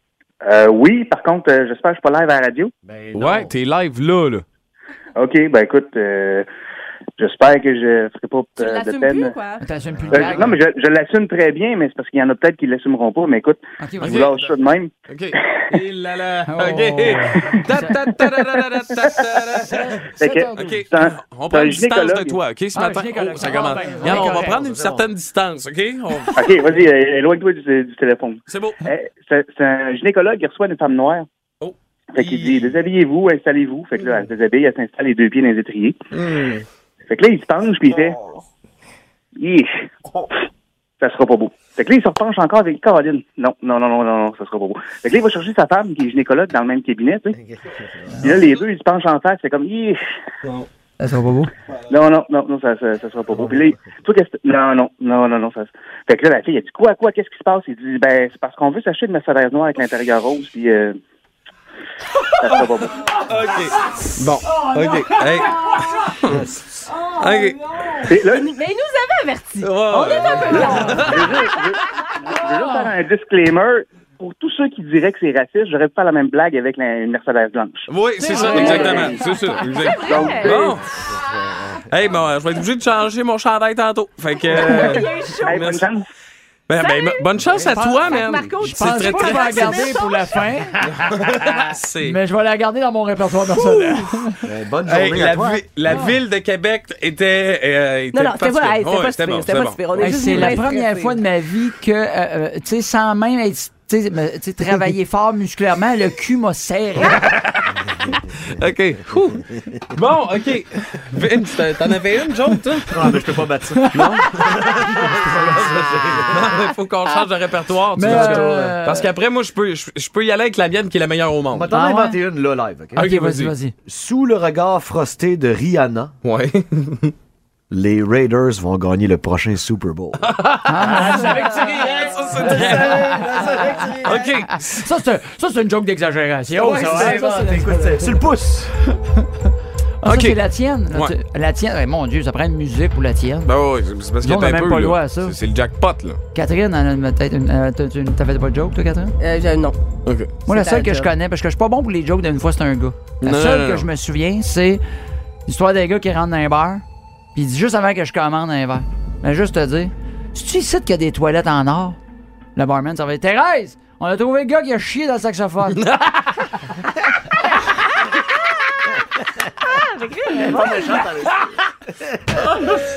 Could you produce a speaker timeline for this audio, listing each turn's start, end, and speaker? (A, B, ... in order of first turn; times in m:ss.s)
0:00.4-0:02.7 A
0:02.9-0:03.5 B
0:03.2-0:04.4 C
0:05.2-0:06.5 A
0:07.2-0:09.4 A
0:08.6-0:09.6 D
0:09.6-0:10.5 E
0:10.0-0:10.4 B
0:10.1-0:14.9 A
0:13.8-0:14.4 E
0:14.0-0:14.5 C
0:15.1-0:20.0 C
0:16.5-0:18.2 E
0:19.6-0:20.8 E
0:20.2-0:22.4 A
0:20.5-0:26.4 C
0:22.8-0:24.6 E
0:24.0-0:25.1 B
0:26.3-0:31.3 A
0:28.5-0:28.8 C
0:31.6-0:32.7 C
0:32.1-0:36.0 A
0:36.1-0:36.6 C
0:37.1-0:38.2 A
0:39.4-0:39.7 A
0:41.0-0:47.4 A
0:47.4-0:48.3 B
0:48.2-0:50.0 A
0:51.0-0:51.5 E
0:51.9-1:01.0 A
1:02.3-1:06.4 C
1:02.4-1:03.0 A
1:04.5-1:05.8 E
1:06.3-1:06.6 B
1:07.1-1:07.6 C
1:08.1-1:08.4 A
1:08.1-1:11.3 D
1:09.6-1:11.5 C
1:10.3-1:11.0 E
1:11.1-1:11.8 A
1:12.3-1:17.9 A
1:12.4-1:12.9 E
1:17.9-1:20.9 C
1:18.2-1:19.2 E
1:18.2-1:20.8 D
1:18.6-1:19.2 A
1:21.2-1:21.8 B
1:21.9-1:25.9 C
1:24.5-1:25.8 D
1:25.5-1:26.0 A
1:26.7-1:29.9 C
1:26.8-1:27.3 D
1:27.7-1:28.0 E
1:28.0-1:30.2 D
1:28.6-1:34.4 E
1:30.9-1:32.2 C
1:33.6-1:34.1 C
1:34.4-1:36.0 B
1:34.9-1:40.6 C
1:38.1-1:41.2 D
1:40.0-1:47.3 E
1:47.2-1:47.5 C
1:48.6-1:53.2 C
1:52.9-1:56.6 B
1:53.7-1:54.2 E
1:53.9-1:54.5 C
1:56.2-2:01.7 C
1:58.0-1:59.1 E
1:58.0-1:58.5 B
2:01.5-2:03.1 B
2:01.7-2:02.2 E
2:02.9-2:03.5 C
2:03.0-2:03.7 E
2:03.8-2:06.2 B
2:06.2-2:07.1 C
2:07.7-2:14.4 B
2:10.2-2:13.2 C
2:10.7-2:11.7 E
2:12.4-2:13.9 E
2:14.0-2:14.8 C
2:14.5-2:18.2 E
2:16.5-2:18.7 B
2:16.8-2:17.2 C
2:20.0-2:23.5 E
2:20.1-2:20.4 C
2:23.4-2:26.2 C
2:24.2-2:25.4 E
2:26.3-2:29.1 E
2:29.2-2:29.8 D
2:30.1-2:30.3 C
2:30.5-2:31.1 D
2:30.5-2:34.8 E
2:33.2-2:33.9 C
2:35.5-2:36.8 E
2:37.4-2:42.0 E
2:42.6-2:46.3 E
2:45.8-2:46.2 C
2:49.6-2:51.1 D
2:50.4-2:52.4 B